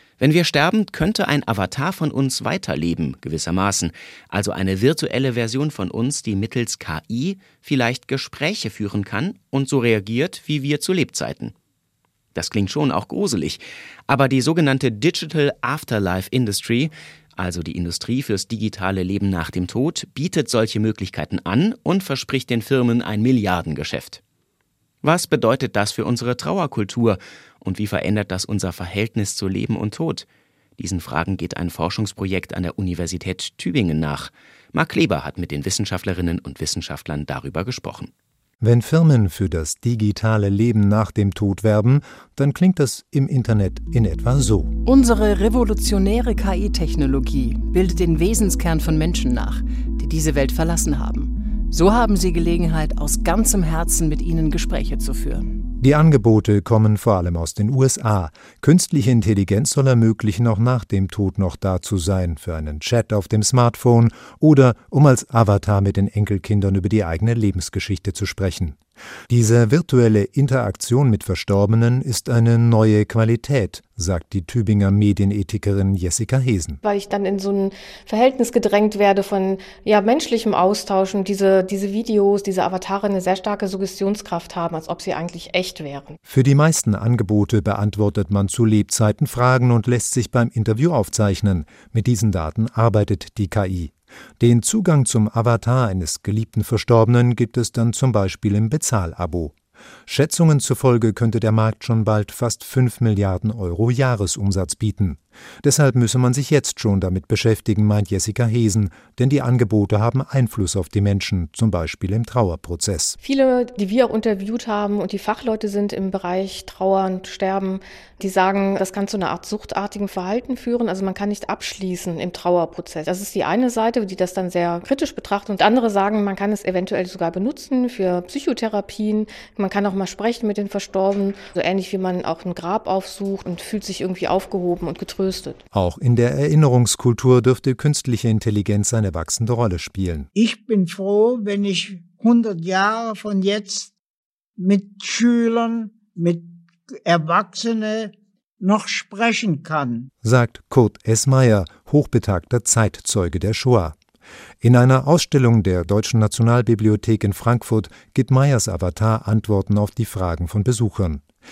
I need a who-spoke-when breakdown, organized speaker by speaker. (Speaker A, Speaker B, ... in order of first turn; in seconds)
Speaker A: 0.2-11.5, 12.3-24.2, 25.0-30.3, 30.8-38.1
Speaker B: 38.6-44.7, 55.8-68.8, 69.3-76.8, 86.3-99.5, 100.1-113.2, 135.7-140.3, 150.2-154.0, 154.6-161.2
Speaker C: 44.8-55.6
Speaker D: 76.8-86.2, 113.2-135.6
Speaker E: 140.3-143.9, 144.6-150.1